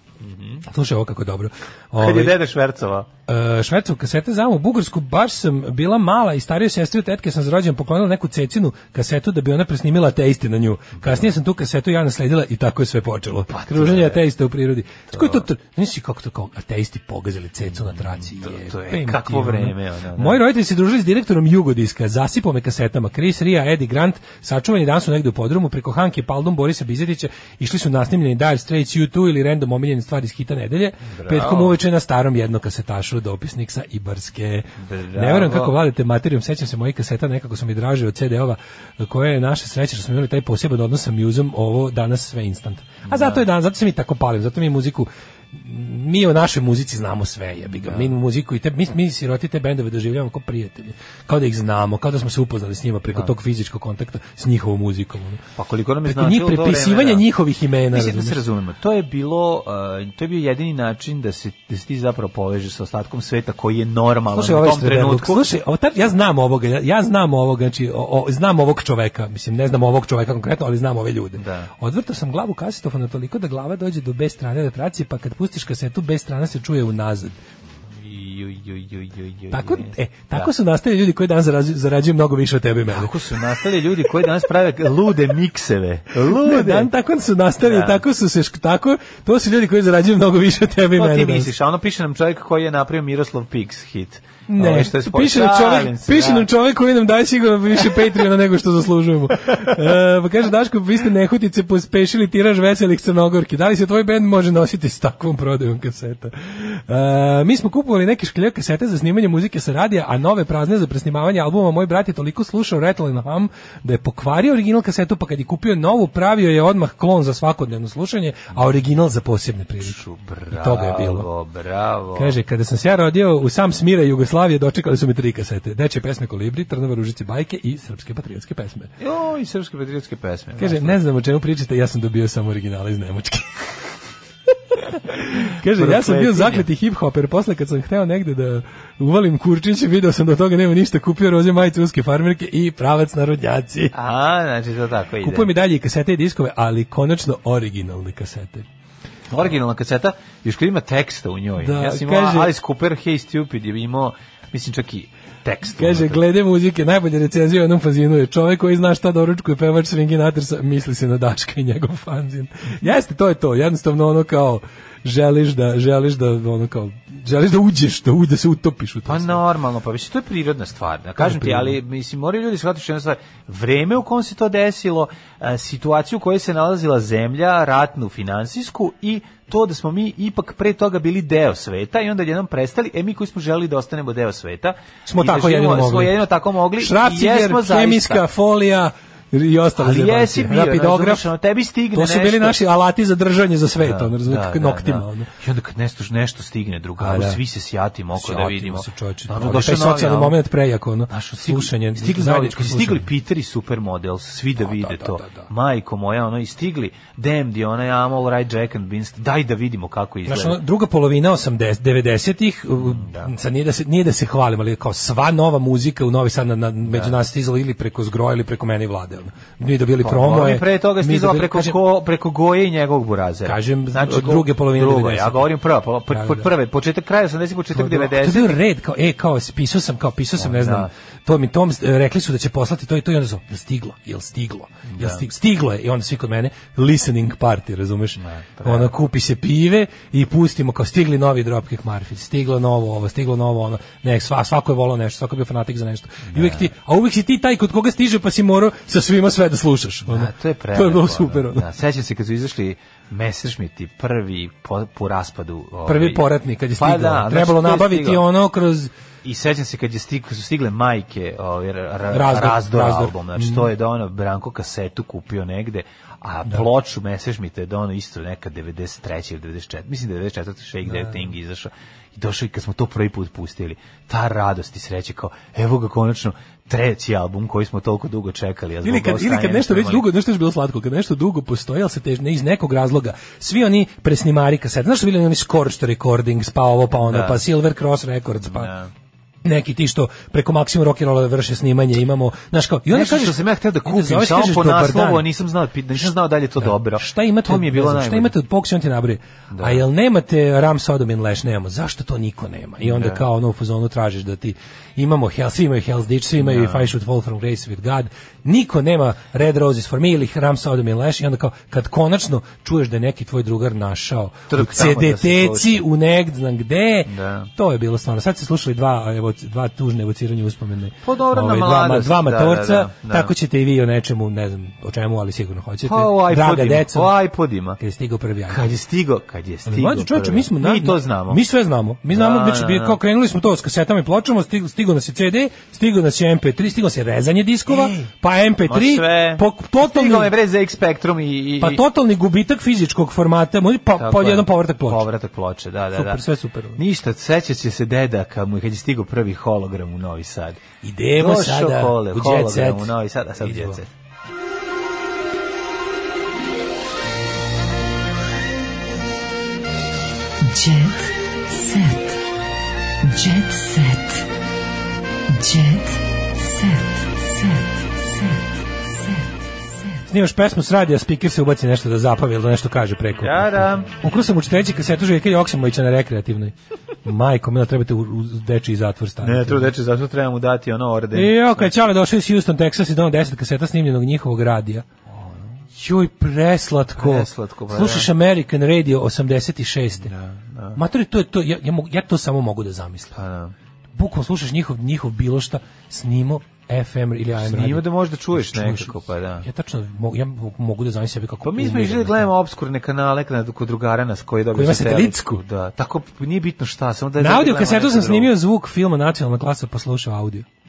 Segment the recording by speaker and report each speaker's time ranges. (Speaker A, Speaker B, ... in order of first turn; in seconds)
Speaker A: 0.2-0.6, 2.0-3.1, 11.0-11.3, 13.5-14.2, 15.1-15.5, 17.9-20.4, 31.1-31.8, 34.8-35.8, 43.1-43.5, 47.8-48.1, 55.6-57.2, 57.9-65.5, 71.4-71.7, 78.0-80.5, 82.9-86.9, 87.6-88.0, 91.0-96.5, 119.8-122.4, 129.0-131.0, 135.8-136.7, 143.9-145.5, 149.3-156.2, 169.1-188.2, 189.8-192.6, 193.8-200.4, 201.1-210.6, 212.8-213.3, 216.9-217.2, 220.0-228.6, 230.4-230.9, 234.9-235.2, 238.2-238.9, 246.3-246.7, 250.1-256.3, 256.8-258.2, 259.2-280.1, 287.1-287.4, 288.5-288.9, 292.9-298.4, 299.5-299.8, 302.8-303.3, 306.4-306.9, 314.5-315.8, 317.1-317.5, 321.1-323.3, 325.9-327.8, 328.5-331.4, 332.1-333.0, 337.7-338.1, 338.7-341.8, 344.0-346.2, 346.8-350.6, 351.2-353.9, 373.2-373.9, 379.2-381.7, 385.1-385.4, 387.0-388.1, 390.0-390.8, 393.1-393.6, 397.4-399.5, 401.4-408.3
Speaker B: 0.7-2.4, 3.3-55.4, 56.0-58.4, 64.3-77.4, 79.5-83.1, 86.3-91.5, 94.5-120.0, 120.5-121.3, 122.2-128.9, 130.6-133.7, 134.7-143.9, 145.2-148.7, 151.6-152.5, 155.8-169.4, 171.2-171.8, 185.1-186.2, 186.8-191.3, 191.9-195.3, 197.0-197.4, 198.2-203.1, 204.6-205.5, 210.3-221.8, 223.4-225.5, 226.1-226.5, 227.8-251.7, 255.9-258.9, 262.1-263.7, 270.9-271.3, 278.8-288.7, 289.4-295.3, 296.6-327.1, 327.8-328.7, 329.7-340.3, 341.6-345.0, 345.9-346.8, 350.8-353.8, 370.1-379.7, 381.1-384.9, 385.8-390.1, 390.7-393.2, 393.9-402.3, 404.5-405.4, 407.2-410.5
Speaker C: 360.5-362.0, 363.1-364.2, 365.4-367.6